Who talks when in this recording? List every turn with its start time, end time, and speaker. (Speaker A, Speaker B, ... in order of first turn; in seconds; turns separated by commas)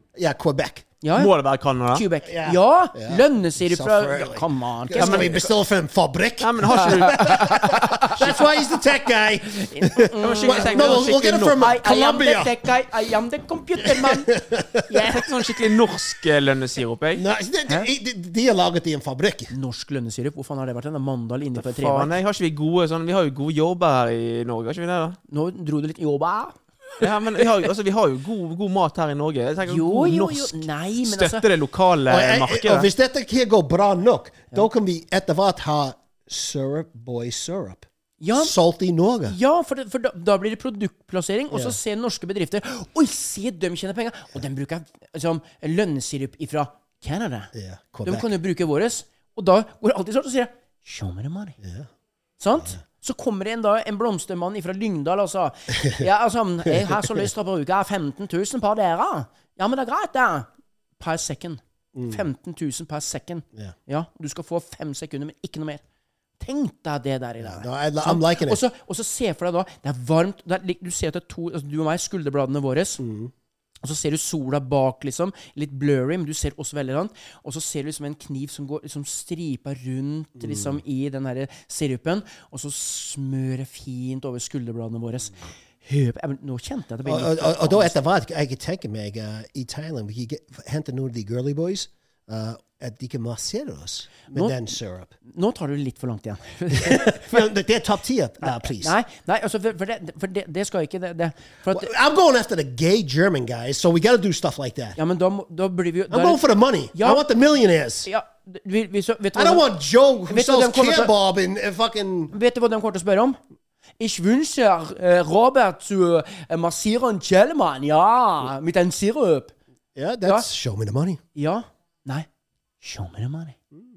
Speaker A: 0.2-0.9, Speaker B: 1.0-1.3, Speaker C: 1.1-2.1, Speaker B: 1.9-5.5, Speaker A: 2.2-12.5, Speaker C: 5.0-5.5, Speaker C: 6.4-7.8, Speaker B: 6.8-8.8, Speaker B: 9.5-15.2, Speaker C: 10.2-11.6, Speaker A: 13.8-14.8, Speaker C: 15.1-17.2, Speaker A: 17.1-19.5, Speaker B: 19.5-22.1, Speaker C: 21.6-25.2, Speaker B: 25.3-27.1, Speaker C: 27.0-32.9, Speaker B: 29.7-31.4, Speaker A: 32.1-39.4, Speaker B: 38.2-38.5, Speaker B: 39.3-47.5, Speaker A: 47.5-48.3, Speaker B: 48.0-51.6, Speaker A: 51.6-51.9, Speaker B: 52.4-65.8, Speaker A: 56.7-57.3, Speaker A: 61.9-62.2, Speaker B: 66.4-73.0, Speaker A: 67.4-68.6, Speaker A: 73.0-73.3, Speaker B: 73.8-88.0, Speaker A: 80.4-80.8, Speaker A: 87.0-95.1, Speaker B: 94.3-94.6, Speaker B: 95.2-97.5, Speaker A: 96.7-99.0, Speaker B: 98.4-101.9, Speaker A: 101.7-105.0, Speaker B: 105.0-106.4, Speaker A: 106.1-108.1, Speaker B: 106.9-107.2, Speaker B: 108.1-109.7, Speaker A: 109.3-112.3, Speaker B: 110.3-111.1, Speaker B: 112.3-113.4, Speaker B: 114.0-119.5, Speaker A: 120.0-121.2, Speaker B: 121.3-122.3, Speaker B: 122.8-123.6